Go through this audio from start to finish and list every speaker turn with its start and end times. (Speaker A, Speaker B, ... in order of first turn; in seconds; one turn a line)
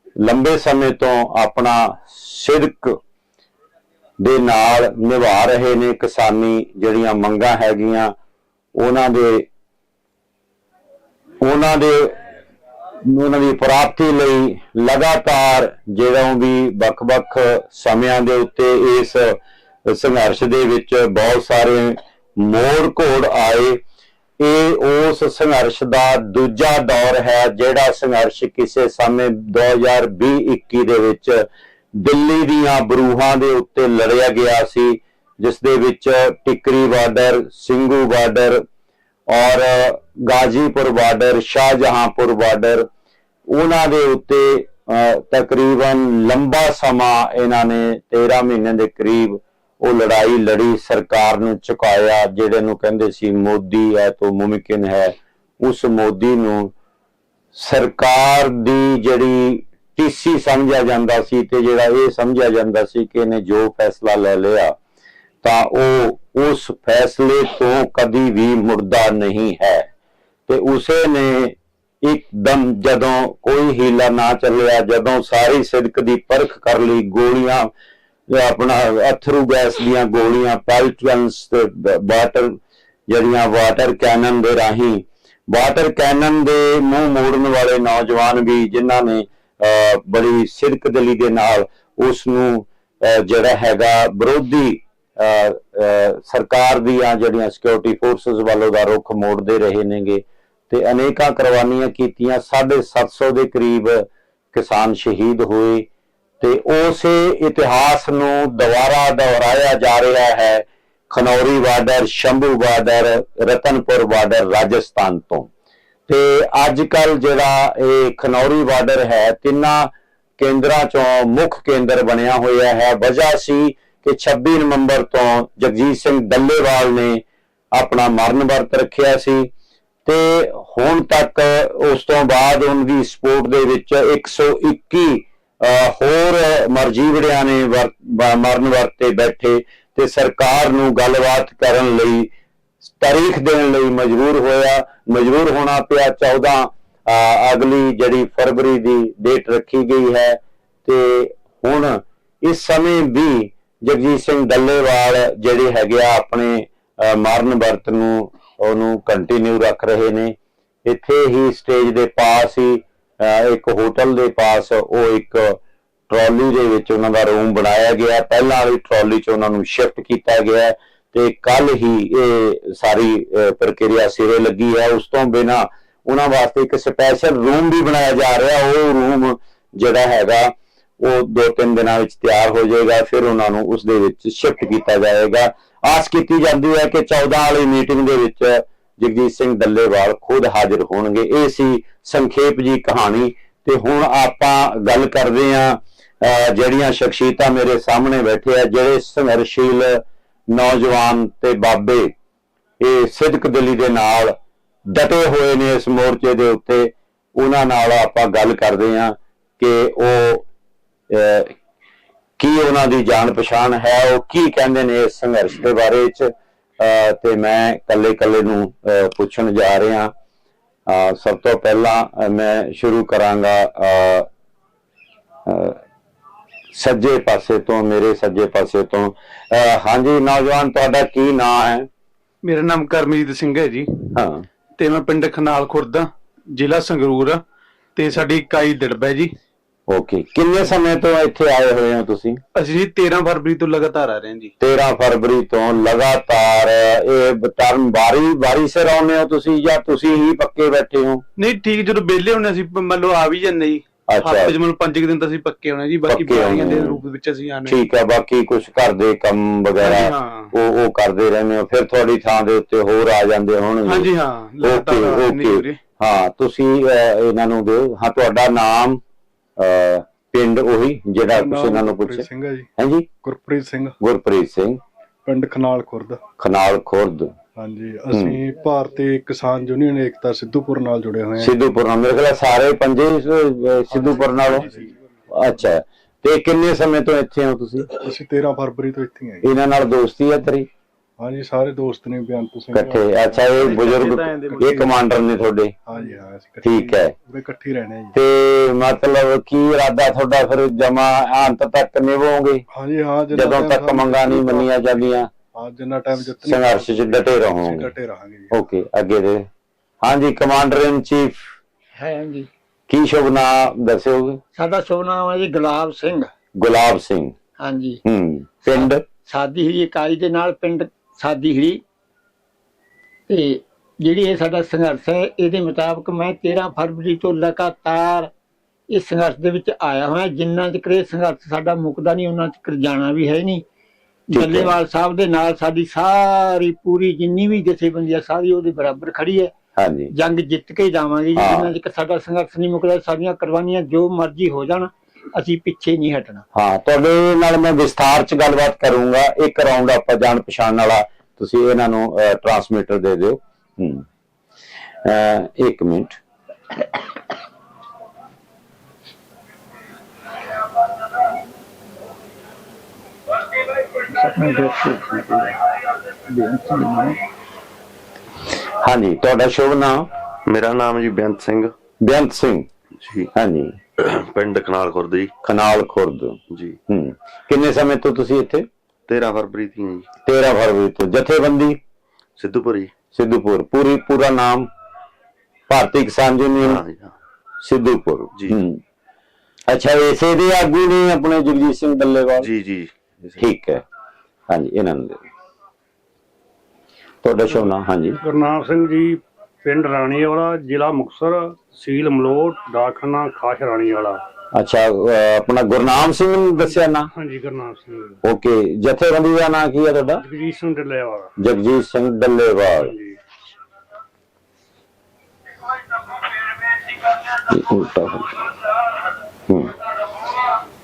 Speaker A: 0.2-3.0
Speaker A: 4.2-8.1
Speaker A: 8.8-9.5
Speaker A: 11.4-12.3
Speaker A: 13.1-23.8
Speaker A: 24.4-38.7
Speaker A: 39.3-42.9
Speaker A: 43.5-56.7
Speaker A: 57.5-64.8
Speaker A: 65.4-69.9
Speaker A: 70.5-77.7
Speaker A: 78.3-105.9
Speaker A: 106.4-115.5
Speaker A: 116.1-127.2
Speaker A: 127.8-129.5
Speaker A: 130.1-142.3
Speaker A: 142.9-202.1
Speaker A: 202.8-204.4
Speaker A: 204.9-210.5
Speaker A: 211.1-211.6
Speaker A: 212.4-220.1
Speaker A: 220.9-224.3
Speaker A: 225.5-225.8
Speaker A: 226.7-231.9
Speaker B: 232.4-234.1
Speaker A: 234.2-234.4
Speaker B: 234.8-237.4
Speaker B: 238.0-239.3
Speaker A: 239.9-242.4
Speaker B: 242.6-244.5
Speaker A: 244.6-251.2
Speaker B: 251.4-257.8
Speaker A: 254.1-254.6
Speaker A: 256.1-257.0
Speaker A: 257.7-269.0
Speaker B: 259.8-260.5
Speaker B: 263.9-265.8
Speaker A: 269.6-273.1
Speaker C: 271.3-272.7
Speaker C: 273.2-273.9
Speaker A: 274.0-274.8
Speaker C: 275.2-276.2
Speaker A: 276.4-277.3
Speaker C: 277.6-281.5
Speaker A: 278.1-278.4
Speaker A: 281.4-284.7
Speaker C: 283.9-284.9
Speaker A: 285.3-287.9
Speaker C: 287.9-289.5
Speaker A: 289.4-290.7
Speaker C: 291.2-295.0
Speaker A: 292.7-295.7
Speaker C: 295.9-298.1
Speaker A: 296.6-297.1
Speaker A: 298.1-302.6
Speaker C: 302.7-308.6
Speaker A: 303.3-305.3
Speaker A: 306.4-307.9
Speaker A: 308.5-309.5
Speaker A: 310.0-311.4
Speaker D: 312.0-312.5
Speaker A: 312.9-314.4
Speaker D: 314.6-316.3
Speaker A: 316.6-317.4
Speaker D: 317.6-318.0
Speaker A: 318.1-319.0
Speaker D: 318.6-321.8
Speaker D: 323.3-328.3
Speaker D: 328.9-333.6
Speaker D: 334.3-339.5
Speaker A: 334.3-334.7
Speaker A: 339.8-340.1
Speaker D: 340.1-346.4
Speaker A: 341.4-341.7
Speaker A: 346.5-354.1
Speaker A: 355.1-356.2
Speaker D: 364.2-365.5
Speaker D: 366.3-367.2
Speaker A: 368.8-370.1
Speaker E: 370.5-371.7
Speaker A: 372.0-372.7
Speaker E: 373.0-373.3
Speaker A: 373.3-373.8
Speaker E: 374.0-375.3
Speaker A: 375.4-378.7
Speaker E: 376.5-376.8
Speaker E: 379.1-380.1
Speaker A: 380.3-381.8
Speaker E: 382.4-382.9
Speaker A: 383.1-384.7
Speaker A: 385.7-386.8
Speaker E: 386.6-387.1
Speaker A: 387.6-388.8
Speaker E: 388.3-388.6
Speaker A: 389.7-392.5
Speaker E: 392.4-393.4
Speaker A: 393.4-393.8
Speaker A: 394.5-395.2
Speaker A: 397.2-398.2
Speaker F: 398.2-404.2
Speaker A: 404.5-407.1
Speaker F: 407.1-408.2
Speaker A: 408.2-410.2
Speaker F: 410.2-411.3
Speaker A: 411.4-412.9
Speaker F: 412.8-413.2
Speaker A: 417.4-418.5
Speaker A: 419.5-419.8